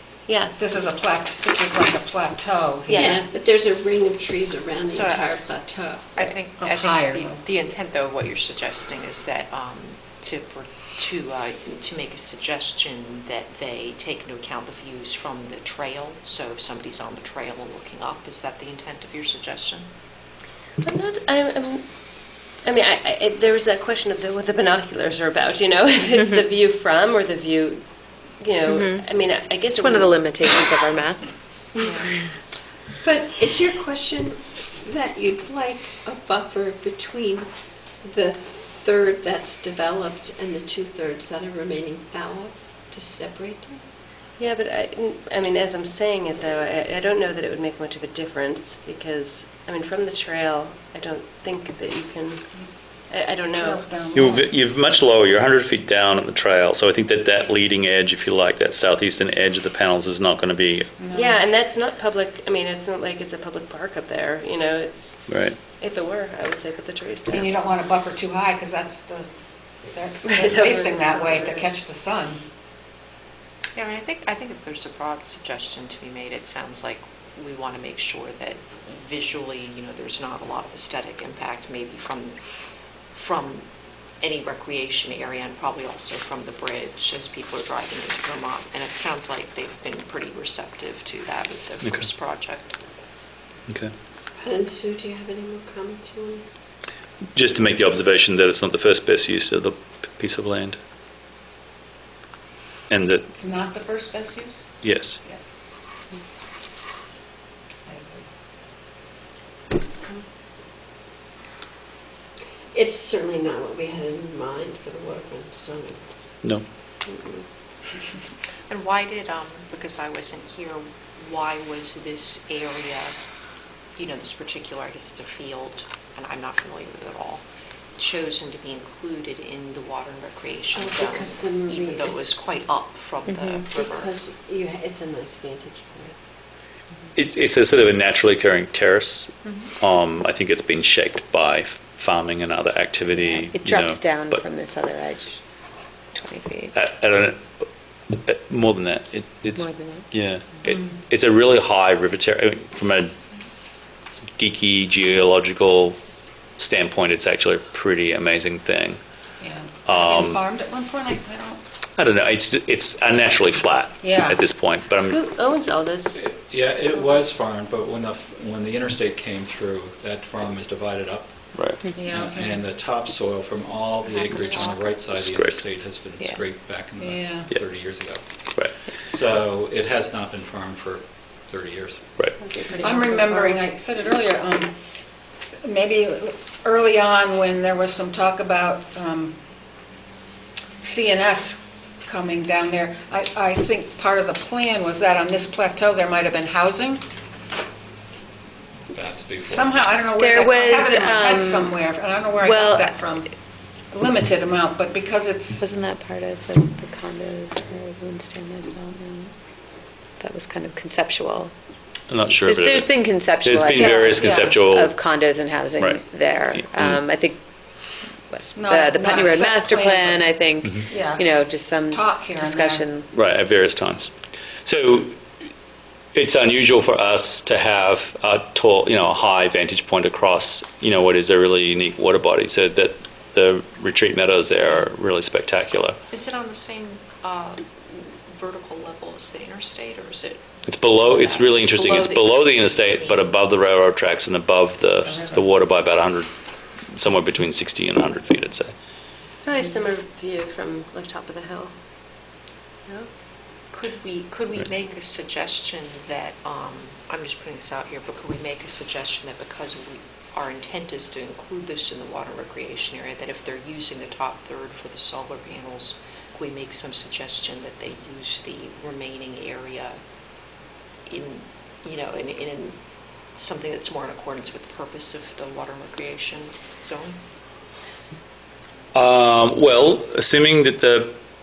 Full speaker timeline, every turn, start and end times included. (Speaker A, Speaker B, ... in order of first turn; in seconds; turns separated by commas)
Speaker A: 0.3-0.7, Speaker B: 0.5-3.2, Speaker A: 2.9-3.2, Speaker C: 2.9-6.2, Speaker D: 4.9-5.4, Speaker D: 6.2-19.9, Speaker B: 6.6-7.4, Speaker A: 20.8-30.2, Speaker E: 28.7-29.1, Speaker E: 29.7-32.1, Speaker C: 33.0-37.5, Speaker C: 38.0-43.8, Speaker A: 44.4-52.4, Speaker A: 53.1-53.9, Speaker B: 53.4-54.5, Speaker F: 54.1-60.9, Speaker B: 61.0-61.4, Speaker A: 61.1-67.8, Speaker F: 65.3-65.6, Speaker B: 67.3-69.3, Speaker B: 69.8-72.4, Speaker A: 70.2-71.7, Speaker D: 73.8-82.4, Speaker D: 83.1-83.7, Speaker D: 84.2-92.8, Speaker C: 94.4-96.5, Speaker F: 97.3-100.8, Speaker F: 102.9-103.3, Speaker B: 103.3-104.7, Speaker F: 104.8-105.2, Speaker B: 107.9-108.3, Speaker C: 112.7-116.1, Speaker A: 117.1-117.4, Speaker D: 118.7-123.1, Speaker D: 124.0-127.4, Speaker D: 128.0-134.1, Speaker C: 130.7-132.4, Speaker E: 133.3-133.6, Speaker C: 133.7-136.2, Speaker F: 137.2-144.4, Speaker D: 139.4-139.7, Speaker E: 143.1-145.4, Speaker E: 146.1-146.7, Speaker F: 146.8-153.2, Speaker E: 149.6-150.1, Speaker B: 150.7-151.0, Speaker F: 154.4-156.0, Speaker F: 156.6-159.0, Speaker B: 159.4-161.6, Speaker F: 159.9-160.4, Speaker F: 162.0-165.2, Speaker B: 164.0-164.4, Speaker A: 165.0-166.2, Speaker G: 166.1-182.2, Speaker A: 167.0-167.2, Speaker F: 171.5-171.8, Speaker B: 171.9-172.7, Speaker F: 175.1-175.6, Speaker B: 177.0-177.5, Speaker F: 178.5-178.8, Speaker A: 182.4-183.6, Speaker B: 182.7-184.7, Speaker B: 185.6-189.4, Speaker B: 190.8-197.0, Speaker G: 198.9-199.8, Speaker B: 199.4-203.3, Speaker E: 200.2-201.8, Speaker E: 202.4-202.9, Speaker B: 203.9-205.6, Speaker E: 205.6-209.3, Speaker E: 210.2-211.5, Speaker F: 212.1-215.0, Speaker E: 212.4-217.4, Speaker B: 213.7-214.6, Speaker F: 216.6-217.0, Speaker E: 218.3-223.1, Speaker B: 218.6-220.3, Speaker B: 220.9-221.3, Speaker B: 221.9-222.9, Speaker F: 223.1-224.1, Speaker F: 224.6-225.2, Speaker F: 226.1-236.0, Speaker D: 236.1-243.3, Speaker F: 240.7-246.3, Speaker B: 245.1-245.4, Speaker F: 246.9-248.7, Speaker A: 249.4-251.7, Speaker D: 253.7-270.0, Speaker D: 271.1-272.8, Speaker D: 273.3-277.2, Speaker F: 278.9-281.2